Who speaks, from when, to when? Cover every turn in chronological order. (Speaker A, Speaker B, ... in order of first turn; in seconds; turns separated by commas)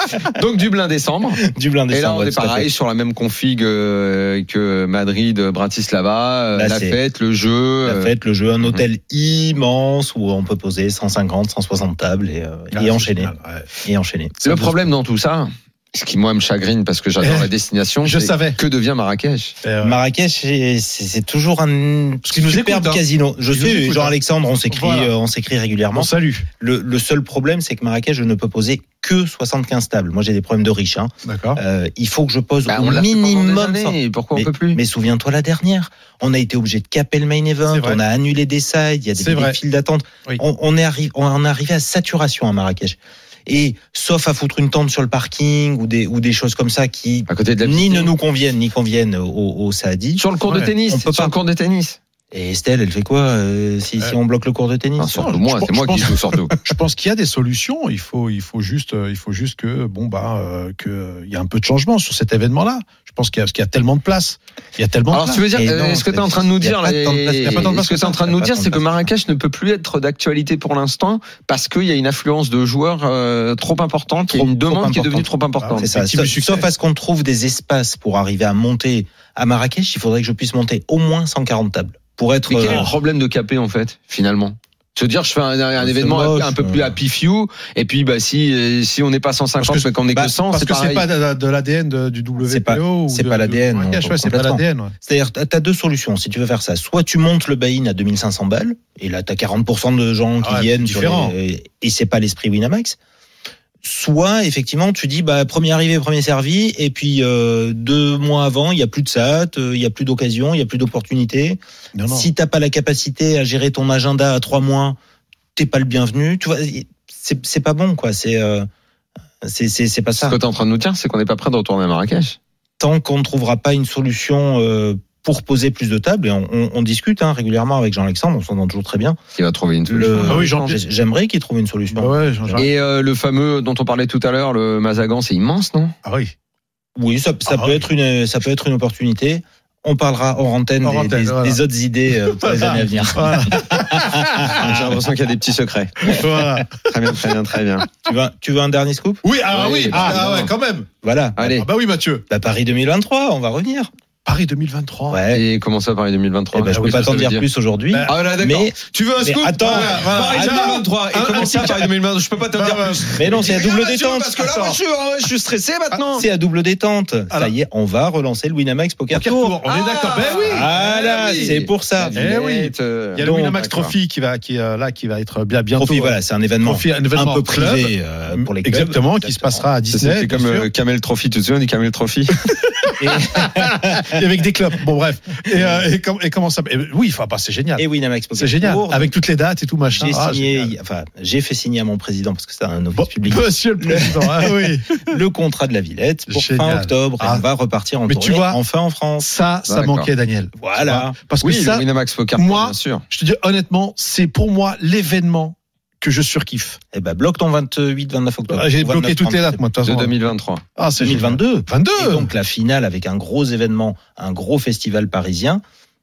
Speaker A: 0.2-8.1, Speaker B: 1.4-2.7, Speaker B: 6.5-7.0, Speaker B: 7.8-13.3, Speaker C: 12.7-13.7, Speaker B: 13.8-14.7, Speaker A: 14.4-19.6, Speaker C: 17.2-17.5, Speaker C: 18.0-18.6, Speaker C: 19.6-20.0, Speaker B: 19.8-50.2, Speaker C: 22.2-24.1, Speaker C: 24.7-25.1, Speaker C: 25.9-26.5, Speaker C: 31.2-31.6, Speaker A: 32.6-34.8, Speaker C: 37.7-38.0, Speaker C: 39.2-39.6, Speaker A: 47.3-48.1, Speaker A: 50.2-52.0, Speaker B: 50.9-51.3, Speaker B: 52.3-55.3, Speaker A: 55.0-56.5, Speaker C: 55.2-65.5, Speaker A: 65.1-75.9, Speaker B: 65.5-69.1, Speaker C: 67.3-68.1, Speaker B: 74.3-75.2, Speaker C: 75.6-76.7, Speaker B: 75.8-82.9, Speaker A: 82.5-91.1, Speaker B: 85.8-86.9, Speaker C: 89.6-94.9, Speaker B: 92.4-103.0, Speaker C: 100.4-101.3, Speaker B: 103.8-115.0, Speaker C: 112.0-112.3, Speaker B: 115.5-118.7, Speaker B: 119.4-120.4, Speaker A: 120.2-122.4, Speaker B: 122.8-129.2, Speaker A: 129.4-130.7, Speaker B: 129.9-132.7, Speaker C: 130.2-130.8, Speaker C: 131.9-132.7, Speaker A: 132.6-135.9, Speaker C: 136.0-136.3, Speaker B: 136.9-144.9, Speaker C: 137.5-137.8, Speaker C: 140.8-141.6, Speaker C: 142.3-144.6, Speaker A: 144.5-146.2, Speaker C: 146.0-146.8, Speaker A: 146.8-147.9, Speaker B: 148.0-149.2, Speaker C: 149.2-150.9, Speaker A: 149.5-150.5, Speaker B: 149.9-150.5, Speaker B: 151.0-151.6, Speaker A: 151.4-151.7, Speaker C: 151.5-152.2, Speaker B: 152.3-153.9, Speaker C: 154.2-155.2, Speaker B: 155.1-155.4, Speaker A: 155.3-157.4, Speaker B: 156.5-160.8, Speaker C: 156.7-157.2, Speaker C: 157.9-158.2, Speaker A: 158.1-166.2, Speaker C: 159.6-161.9, Speaker B: 161.4-161.7, Speaker C: 162.5-163.6, Speaker B: 163.1-164.4, Speaker C: 164.5-164.8, Speaker B: 166.1-169.6, Speaker C: 169.1-170.7, Speaker A: 169.7-173.9, Speaker B: 170.4-172.2, Speaker C: 172.1-180.7, Speaker B: 173.2-173.8, Speaker B: 175.8-179.6, Speaker A: 179.9-182.5, Speaker C: 182.8-190.7, Speaker B: 183.0-184.2, Speaker B: 185.5-185.8, Speaker B: 187.8-189.1, Speaker B: 189.9-199.3, Speaker C: 192.9-195.1, Speaker C: 196.3-197.4, Speaker C: 198.1-198.6, Speaker C: 199.2-206.8, Speaker A: 199.7-200.1, Speaker B: 200.6-201.2, Speaker A: 201.4-203.0, Speaker B: 206.9-209.6, Speaker C: 208.5-210.2, Speaker A: 209.8-210.6, Speaker C: 210.8-212.3, Speaker B: 211.0-215.6